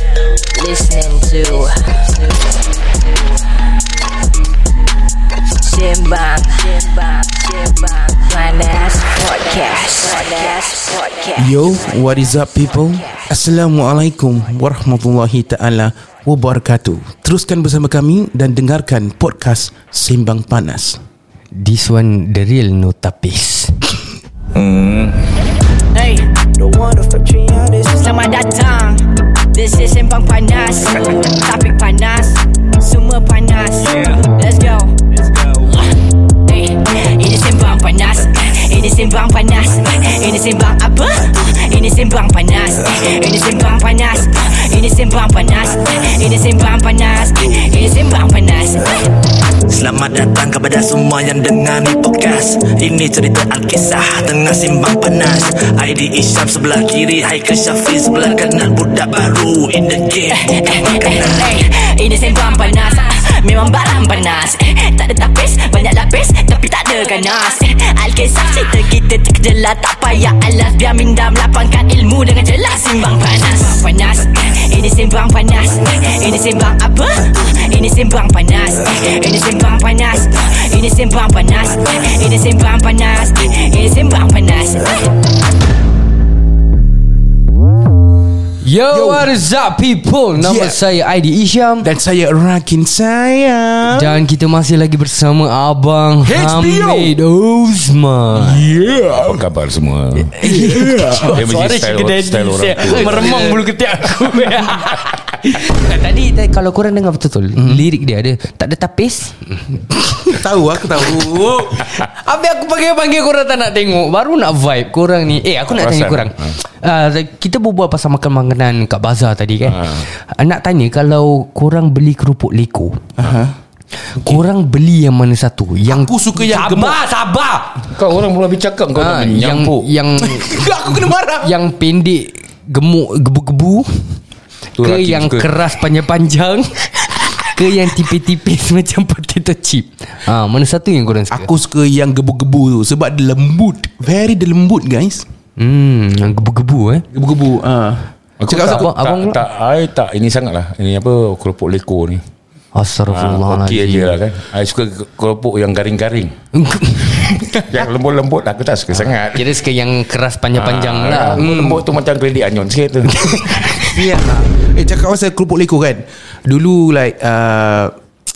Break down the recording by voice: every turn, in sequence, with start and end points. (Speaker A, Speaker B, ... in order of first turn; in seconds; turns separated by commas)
Speaker A: 0.5-2.5, Speaker A: 5.6-11.5, Speaker B: 11.3-21.0, Speaker C: 21.6-23.8, Speaker A: 25.9-26.9, Speaker A: 27.8-34.9, Speaker A: 36.4-49.1, Speaker D: 49.7-61.3, Speaker A: 60.3-85.1, Speaker C: 88.6-91.9, Speaker B: 88.9-89.3, Speaker B: 90.4-90.8, Speaker B: 91.8-94.2, Speaker C: 93.9-98.6, Speaker B: 96.2-97.2, Speaker E: 98.4-103.6, Speaker C: 100.2-110.4, Speaker B: 100.4-101.3, Speaker B: 102.8-103.7, Speaker E: 104.7-105.2, Speaker B: 107.6-107.8, Speaker B: 110.3-111.9, Speaker C: 111.0-123.0, Speaker E: 115.7-116.6, Speaker E: 119.6-120.0, Speaker B: 123.2-123.5, Speaker C: 124.2-127.9, Speaker B: 125.9-127.0, Speaker E: 127.9-129.9, Speaker C: 128.9-134.1, Speaker B: 130.2-131.5, Speaker E: 134.7-135.6, Speaker C: 134.8-141.5, Speaker B: 141.3-145.2, Speaker C: 145.6-147.1, Speaker B: 147.1-148.9, Speaker E: 148.4-152.2, Speaker C: 148.5-149.4, Speaker C: 152.7-154.2, Speaker E: 153.1-156.3, Speaker C: 156.5-157.4, Speaker E: 157.1-159.5, Speaker C: 159.2-161.4, Speaker E: 160.5-163.8, Speaker B: 161.3-161.8, Speaker C: 163.1-163.9, Speaker B: 163.9-167.9